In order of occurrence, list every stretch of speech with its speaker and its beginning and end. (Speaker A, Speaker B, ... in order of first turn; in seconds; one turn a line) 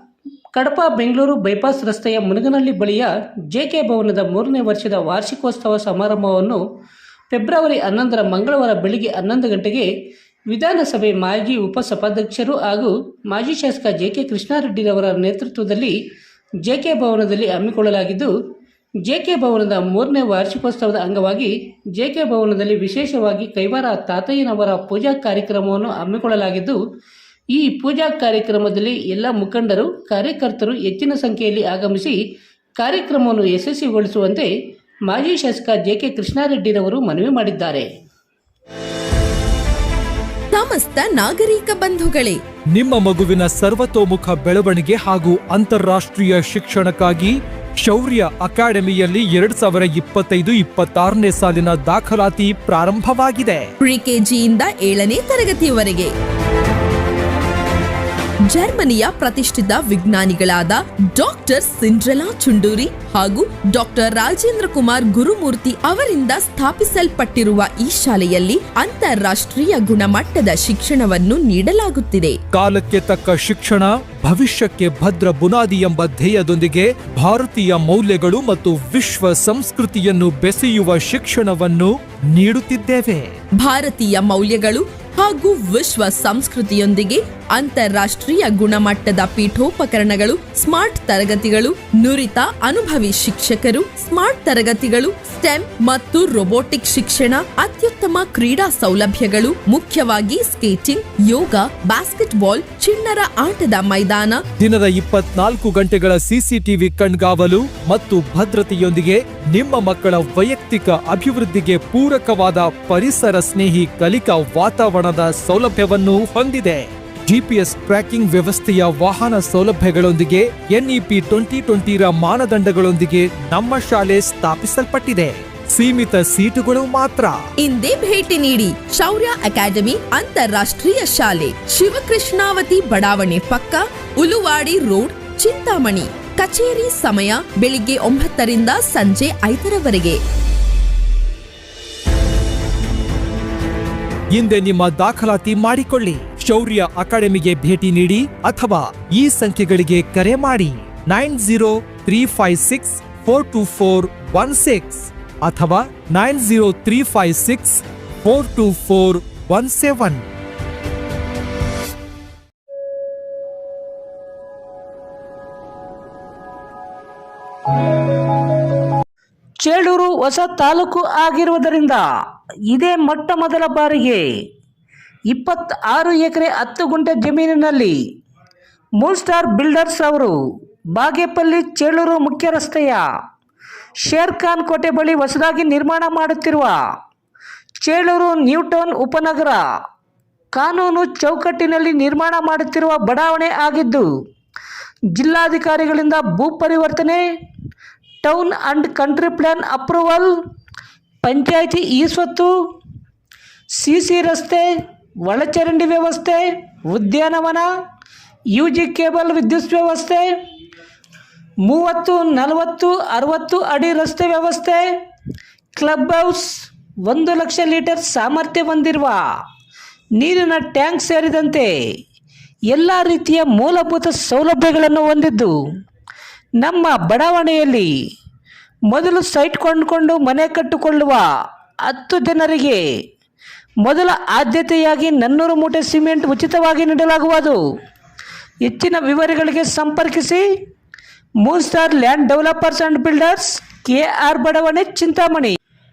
Speaker A: 0.5-6.6
Speaker A: 7.3-9.9
Speaker A: 10.5-16.0
Speaker A: 16.6-18.3
Speaker A: 19.0-26.8
Speaker A: 27.5-32.2
Speaker A: 32.8-34.5
Speaker A: 35.1-37.9
Speaker B: 40.5-42.4
Speaker C: 42.7-53.7
Speaker B: 53.8-56.1
Speaker B: 58.5-72.4
Speaker C: 72.5-83.3
Speaker B: 83.6-104.4
Speaker C: 104.6-127.4
Speaker B: 127.6-140.2
Speaker C: 144.3-160.2
Speaker A: 169.6-172.1
Speaker A: 172.7-174.3
Speaker A: 175.3-178.0
Speaker A: 179.0-180.4
Speaker A: 180.9-183.1
Speaker A: 184.0-186.8
Speaker A: 187.8-189.7
Speaker A: 190.5-194.1
Speaker A: 195.1-197.3
Speaker A: 198.2-200.3
Speaker A: 201.2-202.7
Speaker A: 203.8-204.7
Speaker A: 205.2-207.7
Speaker A: 208.5-210.4
Speaker A: 211.6-215.0
Speaker A: 215.8-219.2
Speaker A: 220.2-221.8
Speaker A: 222.7-225.6
Speaker A: 226.6-227.9
Speaker A: 228.9-231.3
Speaker A: 231.8-232.9
Speaker A: 233.8-237.6
Speaker A: 238.6-240.5
Speaker A: 241.4-245.6